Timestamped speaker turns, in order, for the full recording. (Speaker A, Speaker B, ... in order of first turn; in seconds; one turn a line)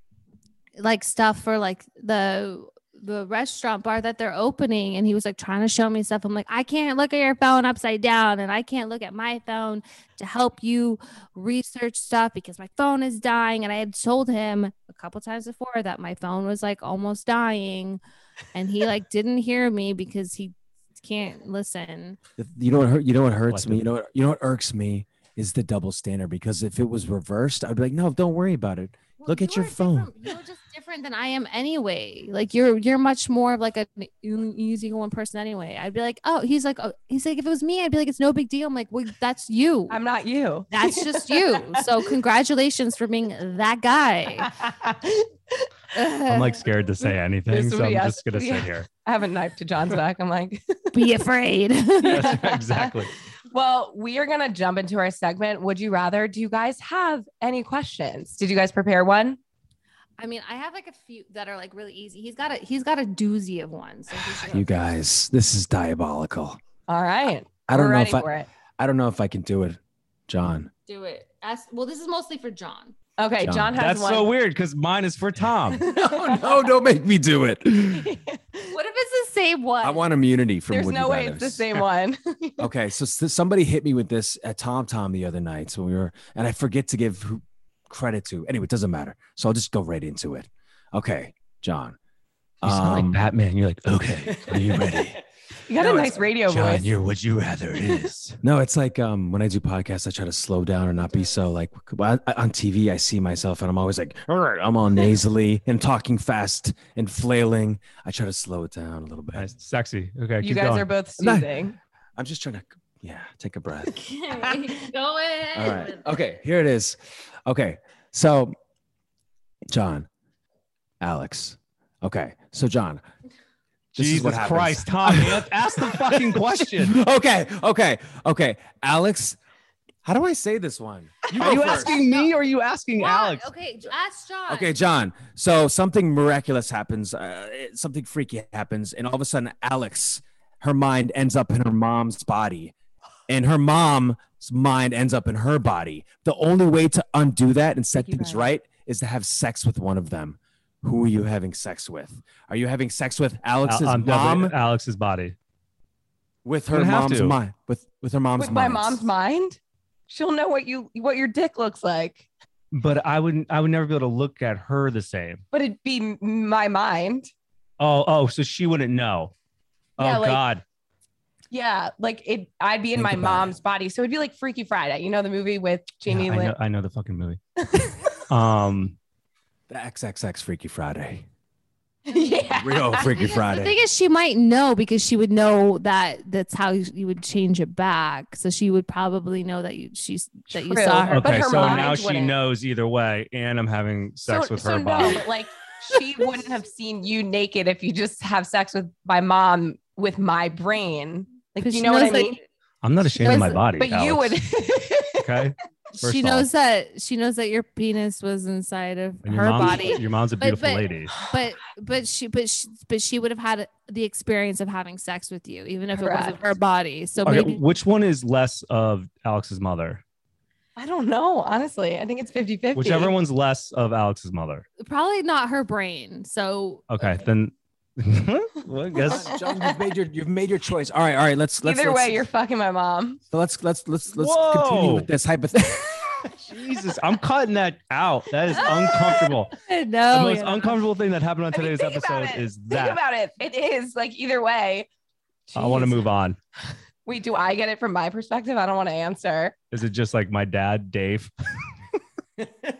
Speaker A: 0.8-18.0
Speaker A: 18.5-22.2
Speaker B: 22.4-30.1
Speaker C: 23.5-23.8
Speaker A: 29.2-40.0
Speaker D: 39.9-42.0
Speaker A: 40.7-44.5
Speaker D: 44.5-45.7
Speaker A: 45.9-46.6
Speaker C: 46.3-48.9
Speaker D: 47.5-50.8
Speaker A: 50.9-52.4
Speaker C: 52.0-53.1
Speaker D: 52.0-59.4
Speaker A: 60.2-64.7
Speaker B: 64.2-66.6
Speaker D: 66.9-68.5
Speaker B: 67.7-70.7
Speaker A: 70.9-72.9
Speaker D: 73.2-74.3
Speaker B: 73.4-73.8
Speaker C: 73.8-75.8
Speaker B: 75.8-78.1
Speaker D: 75.8-76.5
Speaker D: 77.8-78.7
Speaker A: 78.7-80.0
Speaker B: 79.8-81.6
Speaker D: 80.7-82.7
Speaker B: 82.6-92.0
Speaker B: 92.6-93.2
Speaker C: 92.6-95.2
Speaker B: 94.2-95.2
Speaker D: 95.7-96.9
Speaker C: 95.8-98.4
Speaker B: 95.8-96.2
Speaker B: 98.4-109.5
Speaker C: 109.3-110.8
Speaker D: 110.4-111.8
Speaker B: 111.2-111.6
Speaker B: 112.2-114.7
Speaker A: 114.0-116.1
Speaker B: 115.5-118.5
Speaker B: 119.7-120.1
Speaker B: 121.0-123.0
Speaker B: 123.9-129.4
Speaker C: 124.0-127.0
Speaker B: 130.0-132.0
Speaker C: 131.3-133.5
Speaker A: 131.9-132.3
Speaker A: 133.0-134.7
Speaker B: 134.5-142.7
Speaker B: 143.3-154.5
Speaker A: 148.0-148.4
Speaker C: 153.7-155.3
Speaker B: 156.4-159.1
Speaker C: 156.7-157.4
Speaker D: 158.4-162.3
Speaker C: 162.7-165.4
Speaker D: 165.5-167.3
Speaker C: 167.8-169.3
Speaker C: 170.0-170.6
Speaker D: 170.0-170.4
Speaker D: 171.5-176.5
Speaker B: 172.9-173.6
Speaker C: 176.1-177.4
Speaker D: 177.6-178.2
Speaker C: 178.3-178.9
Speaker B: 179.7-181.2
Speaker D: 182.1-183.2
Speaker A: 182.1-191.9
Speaker B: 182.5-183.7
Speaker D: 190.5-192.3
Speaker C: 191.1-195.2
Speaker D: 194.2-202.4
Speaker A: 201.6-202.4
Speaker C: 202.8-204.4
Speaker A: 203.2-203.6
Speaker D: 203.2-205.5
Speaker C: 205.2-206.4
Speaker A: 206.0-217.6
Speaker C: 209.2-211.1
Speaker D: 215.9-216.5
Speaker C: 217.2-220.0
Speaker D: 220.8-223.2
Speaker C: 222.7-224.6
Speaker A: 224.8-226.8
Speaker C: 226.9-229.3
Speaker B: 229.0-232.2
Speaker D: 229.1-229.8
Speaker D: 231.6-233.2
Speaker B: 233.3-236.5
Speaker C: 234.1-235.1
Speaker C: 236.4-239.5
Speaker D: 238.5-239.4
Speaker A: 239.5-240.8
Speaker C: 240.1-243.0
Speaker D: 241.5-244.9
Speaker D: 245.5-246.1
Speaker C: 245.6-246.4
Speaker D: 247.0-249.6
Speaker C: 249.7-251.3